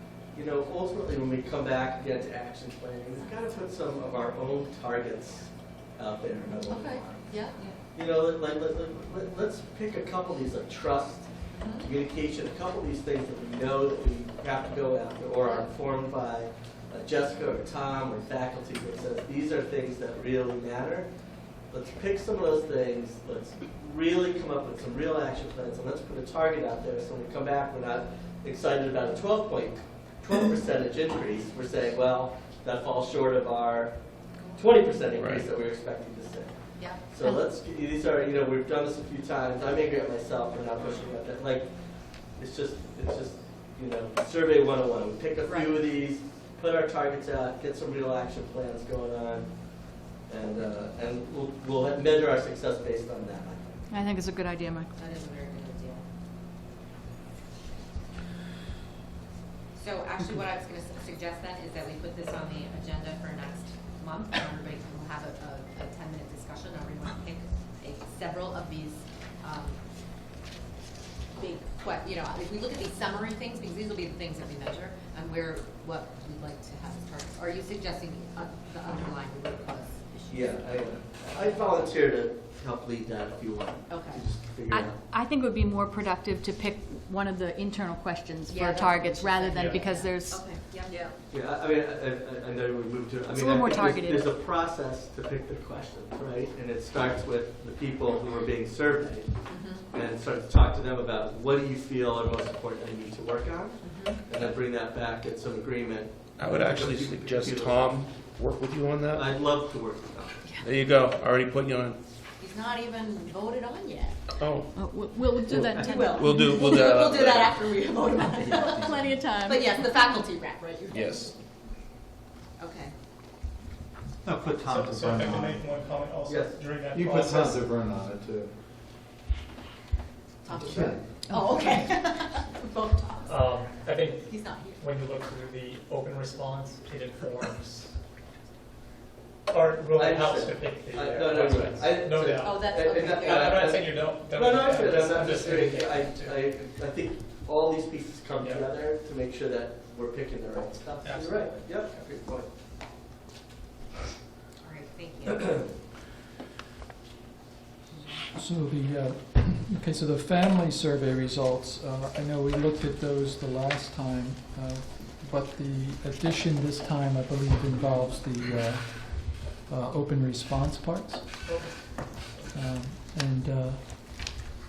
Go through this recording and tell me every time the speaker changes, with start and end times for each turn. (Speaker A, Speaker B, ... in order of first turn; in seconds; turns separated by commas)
Speaker A: 0.3-7.2, Speaker B: 6.7-7.8, Speaker A: 7.9-21.1, Speaker B: 11.5-11.9, Speaker B: 15.4-15.7, Speaker A: 21.7-34.0, Speaker A: 34.5-36.5, Speaker C: 35.1-35.5, Speaker B: 36.8-37.4, Speaker A: 37.1-53.9, Speaker B: 45.4-45.8, Speaker D: 53.9-54.9, Speaker B: 55.0-56.0, Speaker B: 59.7-69.8, Speaker B: 71.3-80.7, Speaker A: 80.3-85.0, Speaker B: 81.2-81.9, Speaker B: 83.9-84.2, Speaker D: 84.7-90.6, Speaker B: 88.5-91.1, Speaker E: 89.5-89.8, Speaker A: 91.3-108.0, Speaker D: 93.3-94.3, Speaker B: 99.5-99.8, Speaker B: 103.8-104.5, Speaker C: 106.4-109.4, Speaker A: 109.1-110.5, Speaker C: 110.6-112.0, Speaker B: 112.4-114.2, Speaker C: 114.4-114.7, Speaker D: 114.7-116.7, Speaker C: 115.5-117.6, Speaker B: 115.7-121.3, Speaker C: 118.5-118.8, Speaker D: 118.9-119.7, Speaker C: 120.9-121.3, Speaker B: 122.6-122.9, Speaker F: 124.2-125.7, Speaker E: 124.6-127.7, Speaker A: 126.2-126.6, Speaker F: 126.9-128.5, Speaker B: 130.4-133.4, Speaker F: 130.5-131.0, Speaker D: 131.3-131.6, Speaker E: 133.2-137.9, Speaker B: 134.1-134.8, Speaker E: 139.5-146.4, Speaker A: 139.9-152.5, Speaker B: 142.3-143.7, Speaker E: 148.4-148.6, Speaker E: 151.0-151.9, Speaker B: 154.6-155.7, Speaker B: 157.9-158.2, Speaker G: 158.3-171.5, Speaker E: 171.4-172.4, Speaker G: 172.5-174.3